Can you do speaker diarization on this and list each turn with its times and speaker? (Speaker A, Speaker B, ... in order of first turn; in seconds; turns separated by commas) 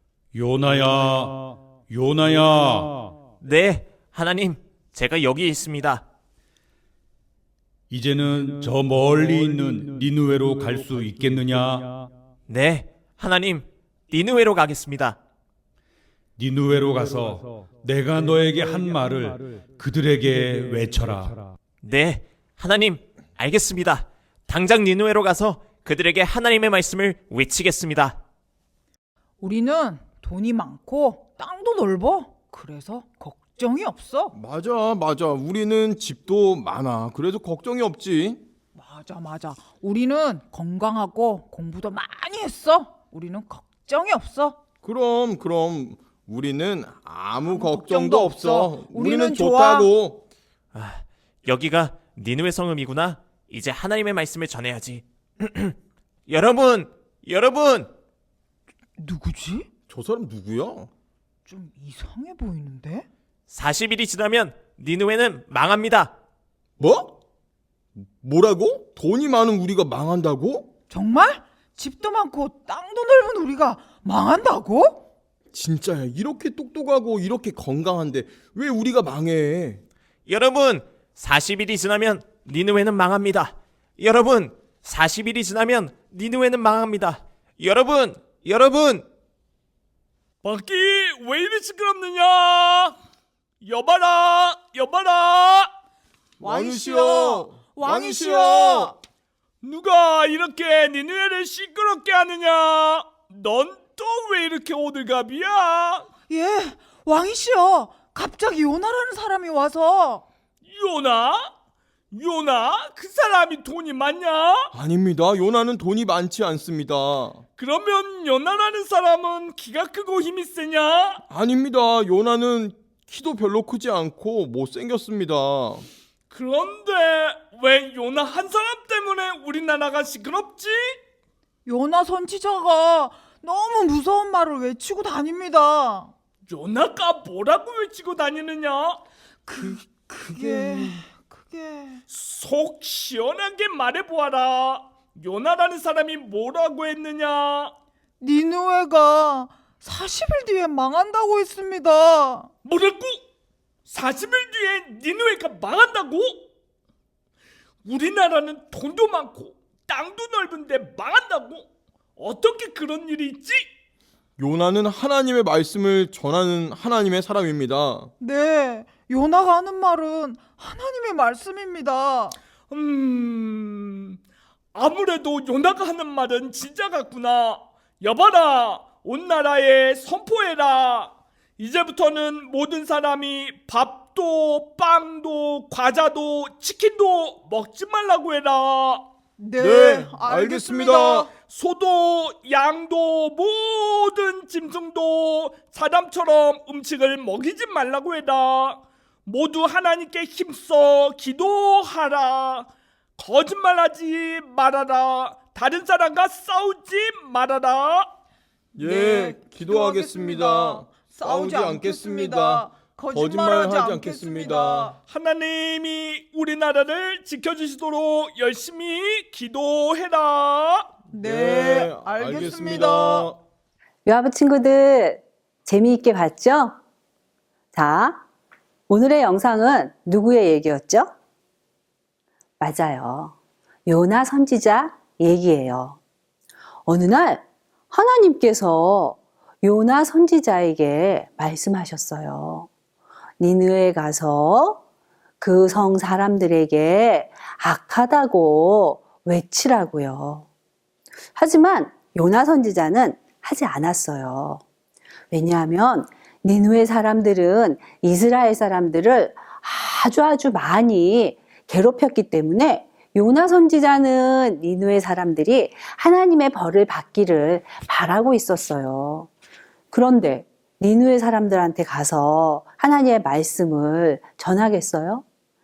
Speaker A: 0.3-3.1, Speaker B: 3.4-6.0, Speaker A: 7.9-12.1, Speaker B: 12.5-15.2, Speaker A: 16.4-21.4, Speaker B: 21.8-28.2, Speaker C: 29.4-34.4, Speaker D: 34.3-38.4, Speaker C: 38.8-44.6, Speaker D: 44.8-50.2, Speaker C: 47.5-49.9, Speaker B: 50.7-55.8, Speaker B: 56.3-57.9, Speaker C: 59.0-59.7, Speaker D: 59.9-60.9, Speaker C: 61.5-63.1, Speaker B: 63.5-66.1, Speaker D: 66.8-67.2, Speaker D: 68.1-70.7, Speaker C: 70.9-75.0, Speaker D: 75.5-79.8, Speaker B: 80.3-89.1, Speaker E: 90.4-93.0, Speaker E: 93.6-95.7, Speaker D: 96.4-98.9, Speaker C: 96.4-98.9, Speaker E: 99.6-106.1, Speaker C: 106.3-110.2, Speaker E: 110.7-111.5, Speaker E: 112.1-114.7, Speaker D: 114.7-117.4, Speaker E: 117.6-121.2, Speaker D: 121.3-125.9, Speaker E: 126.3-131.0, Speaker C: 131.7-136.1, Speaker E: 136.5-139.0, Speaker C: 139.5-142.0, Speaker D: 140.3-140.8, Speaker E: 142.1-147.7, Speaker C: 148.2-152.5, Speaker E: 152.7-153.2, Speaker E: 153.9-156.5, Speaker E: 157.8-163.7, Speaker D: 164.4-168.1, Speaker C: 168.2-172.4, Speaker E: 172.7-174.2, Speaker E: 174.7-189.1, Speaker C: 189.4-191.3, Speaker D: 189.6-191.3, Speaker E: 191.3-208.1, Speaker D: 208.8-214.9, Speaker C: 208.8-214.9, Speaker E: 215.0-220.9, Speaker C: 221.1-223.3, Speaker D: 221.1-223.4, Speaker F: 224.1-226.8, Speaker F: 227.7-228.2, Speaker F: 228.9-231.1, Speaker F: 232.6-233.3, Speaker F: 233.9-236.0, Speaker F: 236.9-242.7, Speaker F: 243.4-244.8, Speaker F: 245.4-250.5, Speaker F: 251.3-254.6, Speaker F: 255.3-269.3, Speaker F: 269.9-275.2